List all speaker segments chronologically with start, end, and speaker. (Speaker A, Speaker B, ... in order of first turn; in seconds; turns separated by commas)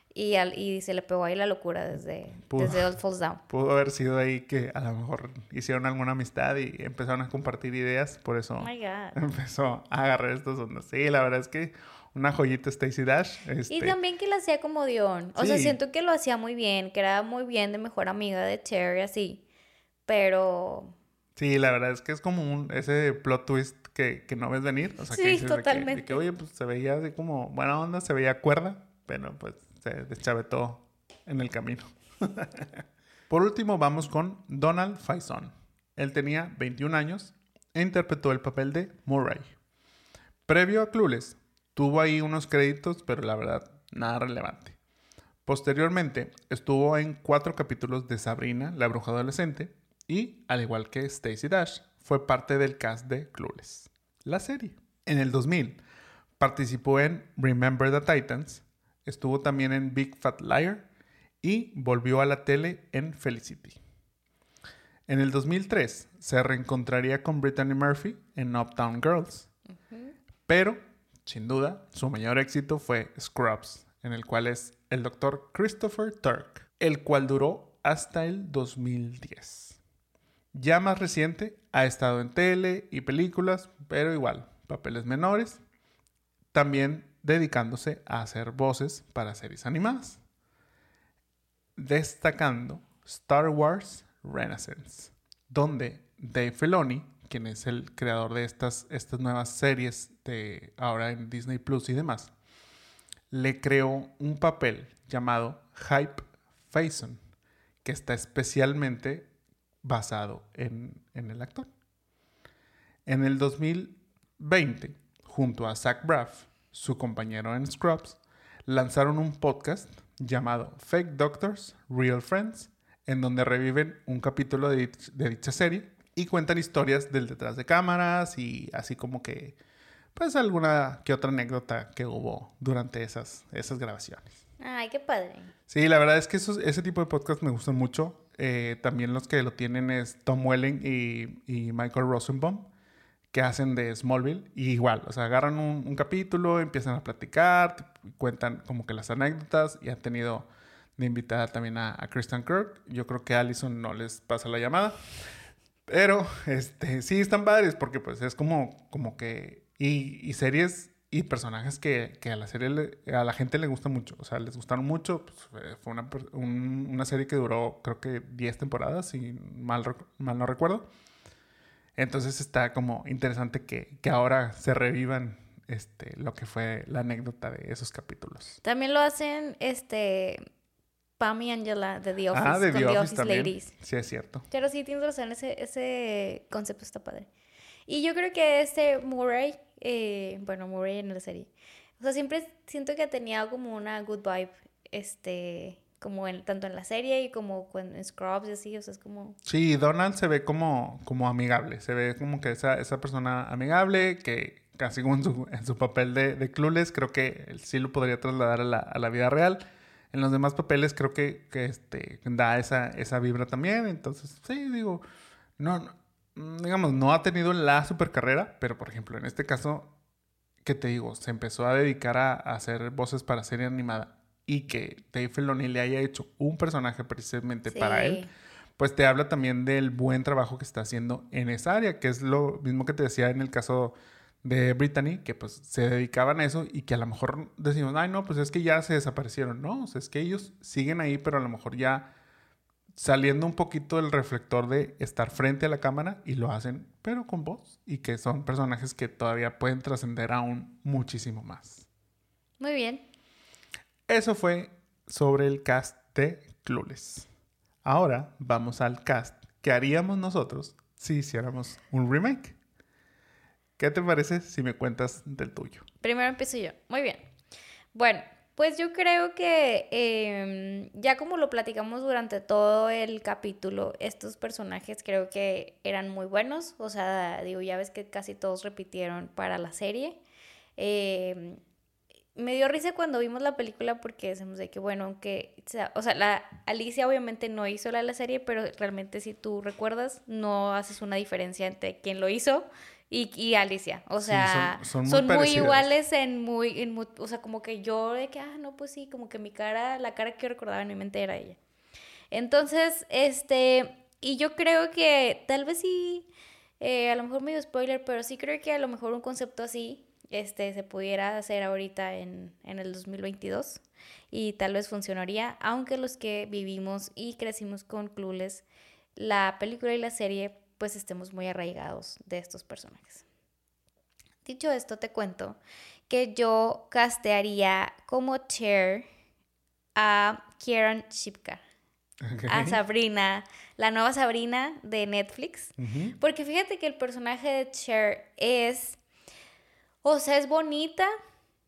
Speaker A: 0.1-3.4, Speaker B: 2.5-2.9, Speaker B: 3.5-13.9, Speaker A: 8.6-9.2, Speaker A: 13.7-19.4, Speaker B: 15.4-15.8, Speaker A: 20.1-20.9, Speaker B: 21.4-39.5, Speaker A: 25.1-26.2, Speaker B: 40.5-44.8, Speaker B: 45.5-55.8, Speaker B: 56.4-60.9, Speaker B: 61.4-63.8, Speaker B: 65.1-69.5, Speaker A: 69.9-70.2, Speaker B: 70.5-79.8, Speaker B: 80.5-85.6, Speaker B: 86.5-90.2, Speaker B: 91.8-102.3, Speaker B: 103.3-107.2, Speaker B: 107.8-109.3, Speaker B: 109.8-111.7, Speaker B: 113.1-129.6, Speaker B: 130.2-134.4, Speaker A: 134.6-135.5, Speaker B: 135.7-142.7, Speaker B: 143.3-155.0, Speaker B: 155.9-170.9, Speaker B: 172.0-178.6, Speaker A: 178.6-180.4, Speaker A: 181.2-183.7, Speaker B: 182.3-184.5, Speaker A: 184.5-187.3, Speaker A: 187.9-199.4, Speaker B: 199.4-209.6, Speaker B: 210.1-215.0, Speaker B: 215.6-219.9, Speaker B: 220.6-228.3, Speaker A: 227.7-228.3, Speaker B: 228.8-242.1, Speaker B: 243.0-251.9, Speaker A: 252.6-253.1, Speaker B: 254.1-257.3, Speaker B: 257.8-262.6, Speaker B: 263.8-265.9, Speaker A: 266.0-267.2, Speaker A: 267.9-280.2, Speaker A: 280.8-281.6, Speaker A: 282.4-301.6, Speaker B: 294.2-295.9, Speaker A: 302.3-306.3, Speaker A: 306.8-318.6, Speaker A: 319.2-323.2, Speaker A: 324.4-329.1, Speaker A: 330.0-331.6, Speaker B: 332.2-332.8, Speaker A: 332.5-339.0, Speaker B: 335.8-336.1, Speaker A: 340.0-341.1